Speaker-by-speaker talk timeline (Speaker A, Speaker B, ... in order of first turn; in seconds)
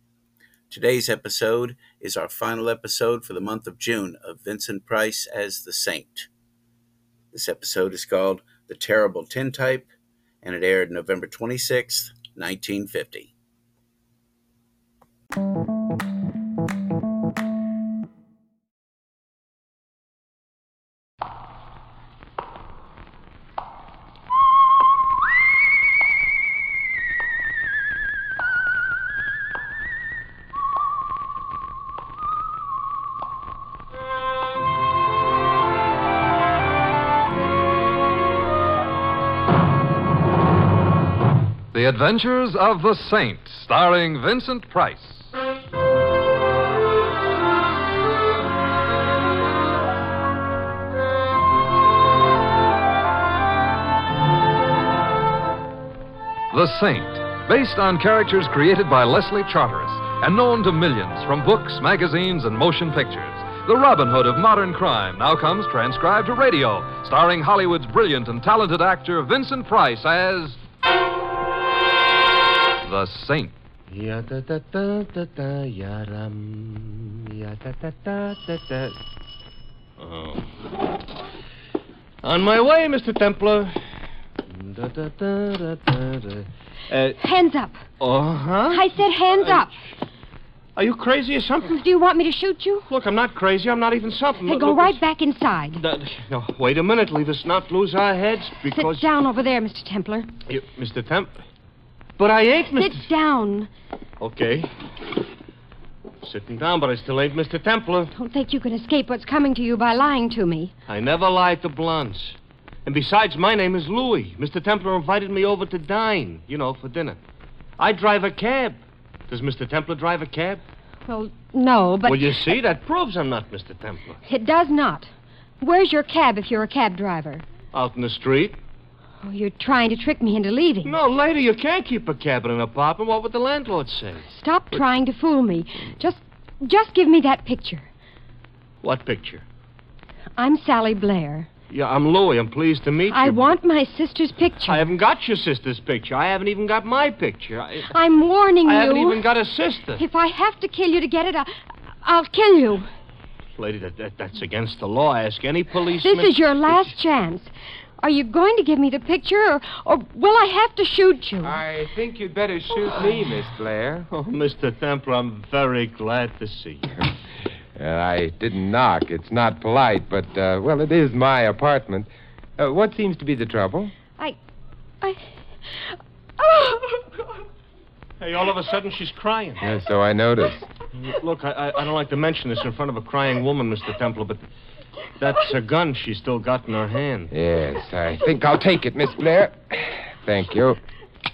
Speaker A: 0.7-6.3, 7.3-9.9, 10.4-13.3
Speaker B: 41.7-45.3, 56.5-70.6, 72.8-73.5
Speaker C: 73.9-79.0, 80.0-80.5, 82.2-83.8, 84.5-87.2, 88.0-89.7, 90.8-91.7, 92.9-95.0, 95.8-99.0, 100.5-101.3, 102.2-103.1, 104.2-104.7, 106.2-108.1, 110.9-117.2, 117.8-120.6, 122.0-124.2, 127.7-128.6, 130.8-134.3, 138.8-139.4, 141.7-143.5, 144.7-147.9, 148.6-150.0, 153.6-156.3, 164.1-166.9, 178.2-179.6, 181.0-184.4, 185.2-187.3
Speaker D: 87.2-87.8, 88.7-89.7, 91.7-92.9, 94.5-95.8, 98.7-100.3, 102.7-103.7, 108.1-110.7, 121.1-122.6, 124.2-125.1, 125.6-127.4, 129.2-130.9, 134.3-137.9, 140.4-141.5, 143.1-144.8, 147.9-149.2, 150.0-151.5, 152.0-152.9, 156.0-161.6, 175.0-177.2
Speaker E: 161.4-164.1, 167.7-173.9, 179.6-180.7, 187.3-190.8